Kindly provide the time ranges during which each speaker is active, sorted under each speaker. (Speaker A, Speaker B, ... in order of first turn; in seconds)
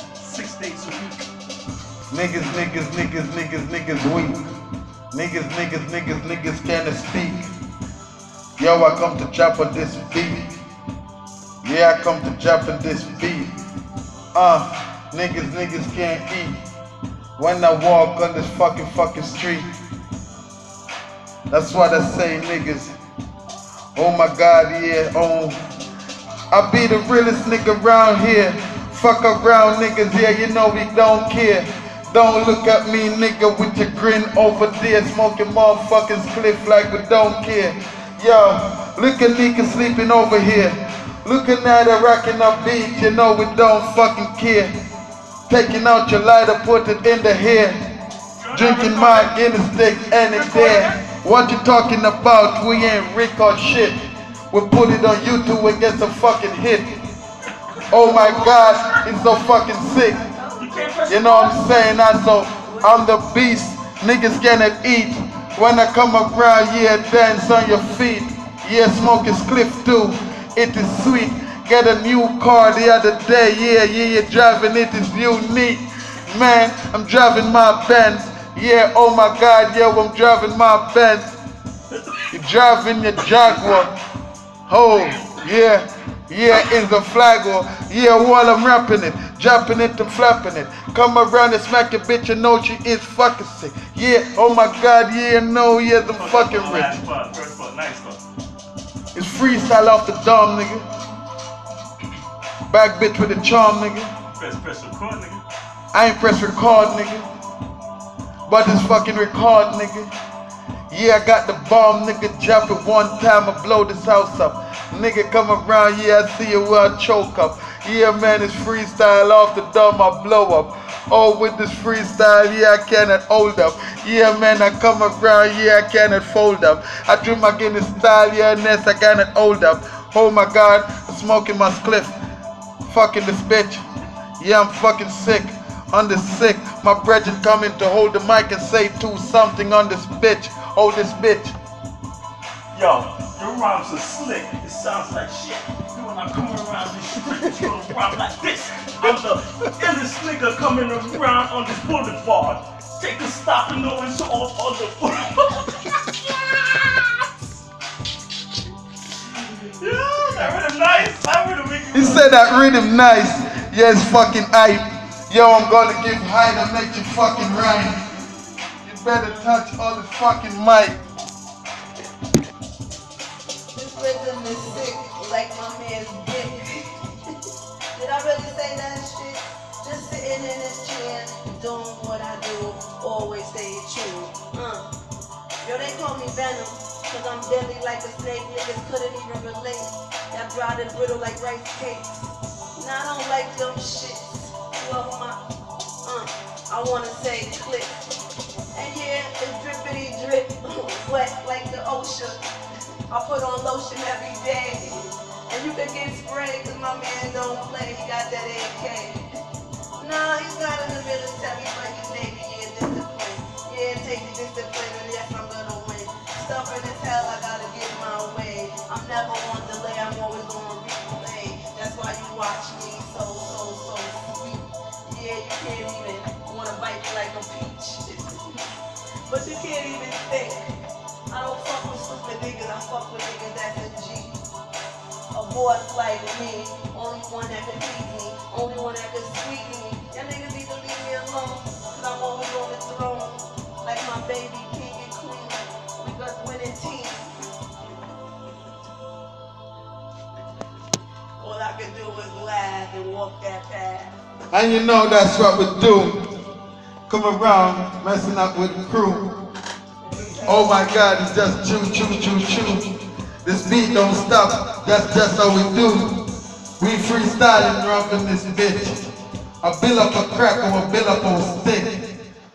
Speaker A: 0.2-1.2, 48.4-49.4, 50.2-51.0, 60.6-61.8, 81.9-82.3, 96.2-98.2, 104.3-105.4, 142.7-157.2, 159.4-162.6
Speaker B: 2.1-4.4, 5.1-7.5, 8.6-10.5, 11.6-13.5, 14.3-16.6, 17.4-19.7, 21.5-23.0, 24.0-25.6, 26.5-44.7, 45.5-47.8, 48.5-54.0, 54.5-57.0, 57.9-60.2, 61.1-81.3, 82.3-83.9, 84.7-97.0, 99.1-100.9, 102.7-104.1, 105.9-107.3, 108.5-110.1, 110.9-132.1, 132.8-133.8, 134.4-141.6, 161.9-168.0, 168.8-171.0, 254.5-256.2, 257.1-259.3, 260.4-262.9, 263.4-266.2, 266.8-269.1, 269.6-272.0
Speaker C: 60.2-61.0, 62.6-63.1, 173.7-177.4, 177.9-184.9, 185.6-195.4, 196.0-198.0, 198.8-202.4, 203.1-209.3, 210.0-228.6, 229.3-230.7, 231.3-234.4, 235.3-247.3, 251.4-254.2